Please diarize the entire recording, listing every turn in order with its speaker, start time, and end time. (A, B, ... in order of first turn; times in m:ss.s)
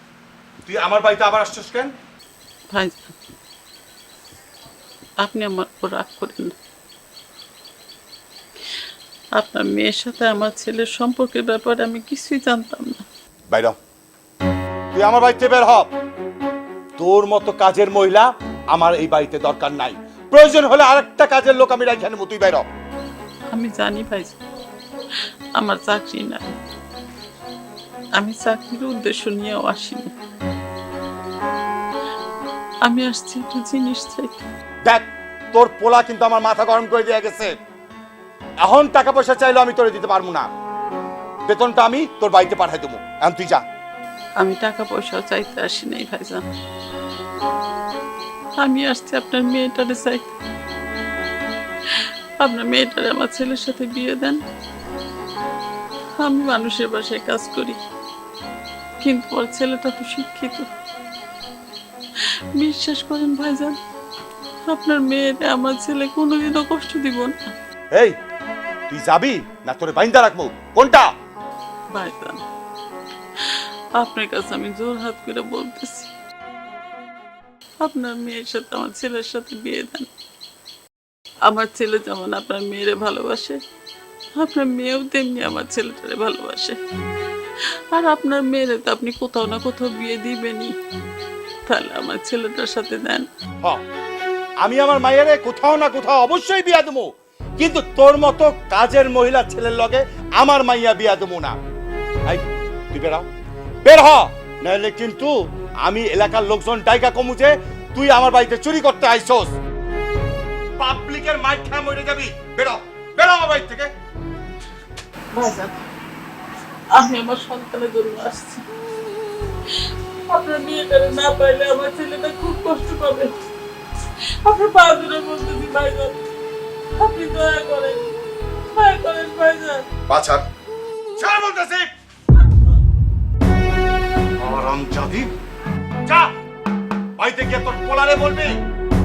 0:00.6-0:01.9 A
0:02.7-0:03.1 B
0:05.2-0:06.5 B
0:09.4-0:13.0 B
0:13.5-0:13.8 A
0:14.9-0:15.9 A
0:17.0-0:22.7 A
0:23.5-0:24.4 B
0:25.6-0:26.5 B
0:28.2-0:30.1 B
0:32.8-0:34.4 B
0:34.8-0:37.6 A
0:38.6-0:40.5 A
0:41.5-0:43.6 A
0:44.4-0:46.4 B
0:48.6-0:50.3 B
0:52.4-0:54.4 B
0:56.2-0:57.8 B
0:59.0-1:00.7 B
1:02.6-1:03.8 B
1:04.7-1:07.5 B
1:08.9-1:11.1 A
1:11.9-1:12.4 B
1:13.4-1:16.1 B
1:17.8-1:20.1 B
1:21.4-1:23.6 B
1:24.4-1:26.8 B
1:27.9-1:30.8 B
1:31.7-1:33.3 B
1:34.6-1:41.6 A
1:42.3-1:43.3 A
1:43.8-1:45.3 A
1:45.8-1:49.5 A
1:50.8-1:53.9 A
1:55.3-1:55.8 B
1:56.9-1:58.6 B
1:59.7-2:03.3 B
2:04.4-2:06.2 B
2:07.0-2:08.1 B
2:08.7-2:09.8 B
2:10.1-2:10.4 A
2:11.2-2:11.9 A
2:14.4-2:15.3 A
2:17.2-2:18.6 A